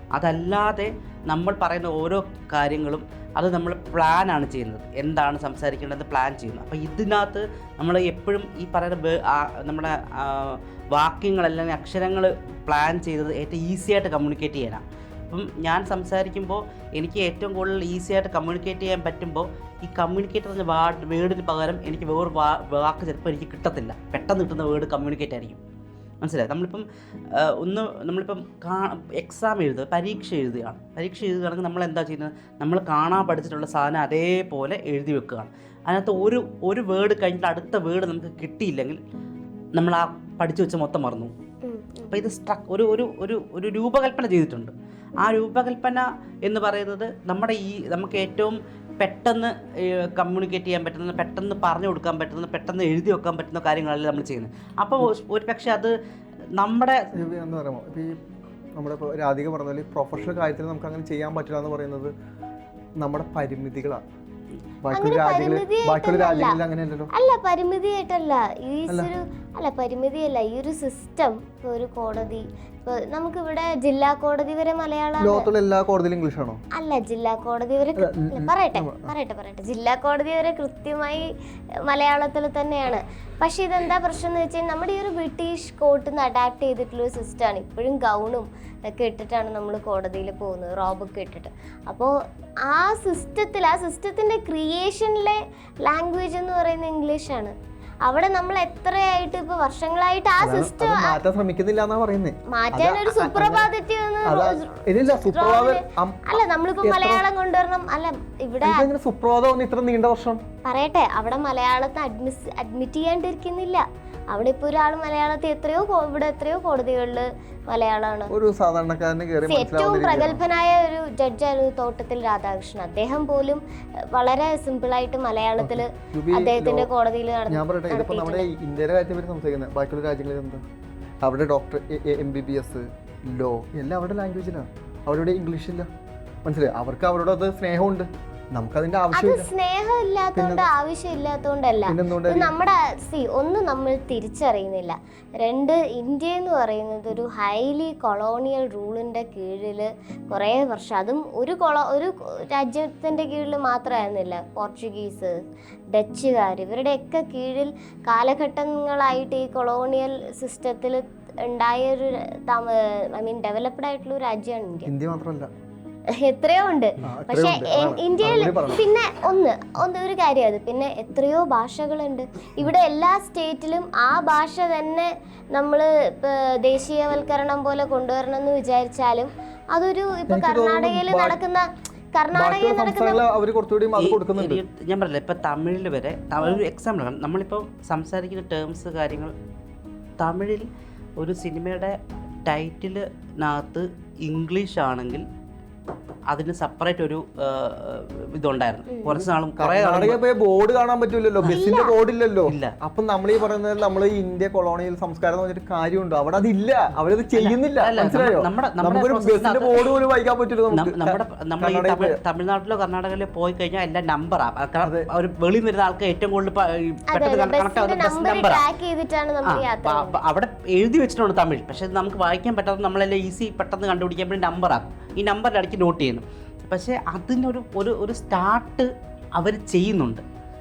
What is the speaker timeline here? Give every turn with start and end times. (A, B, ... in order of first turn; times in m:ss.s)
0:00.1-0:25.6 A
0:26.2-0:39.0 A
0:39.7-0:41.3 A
0:41.6-0:42.3 B
0:42.1-0:55.9 A
0:56.5-0:57.0 A
0:57.1-0:58.2 C
0:58.8-1:02.1 C
1:03.0-1:04.0 C
1:04.8-1:07.1 C
1:04.9-1:06.6 B
1:07.1-1:15.5 B
1:15.2-1:16.6 C
1:16.8-1:21.3 B
1:18.0-1:19.1 C
1:21.8-1:32.1 B
1:32.6-1:37.5 B
1:38.0-1:41.2 B
1:40.4-1:43.7 C
1:42.5-1:48.9 B
1:44.2-1:47.2 C
1:48.6-1:50.4 C
1:50.6-1:58.3 B
1:58.3-2:00.4 C
1:59.4-2:08.5 B
2:05.6-2:06.9 C
2:07.5-2:10.6 C
2:11.2-2:15.9 C
2:16.4-2:19.5 C
2:19.1-2:35.4 B
2:20.4-2:20.7 C
2:21.9-2:22.5 C
2:35.9-2:44.9 B
2:44.8-2:45.5 C
2:46.2-3:03.2 B
2:47.0-2:48.8 C
3:00.3-3:01.4 C
3:02.3-3:04.6 C
3:04.0-3:09.3 A
3:10.2-3:15.2 A
3:16.3-3:20.2 A
3:19.1-3:32.2 C
3:21.5-3:22.0 B
3:22.5-3:22.7 A
3:27.3-3:29.8 A
3:30.7-3:38.6 A
3:34.8-3:35.1 C
3:37.1-3:40.2 B
3:39.4-3:50.2 A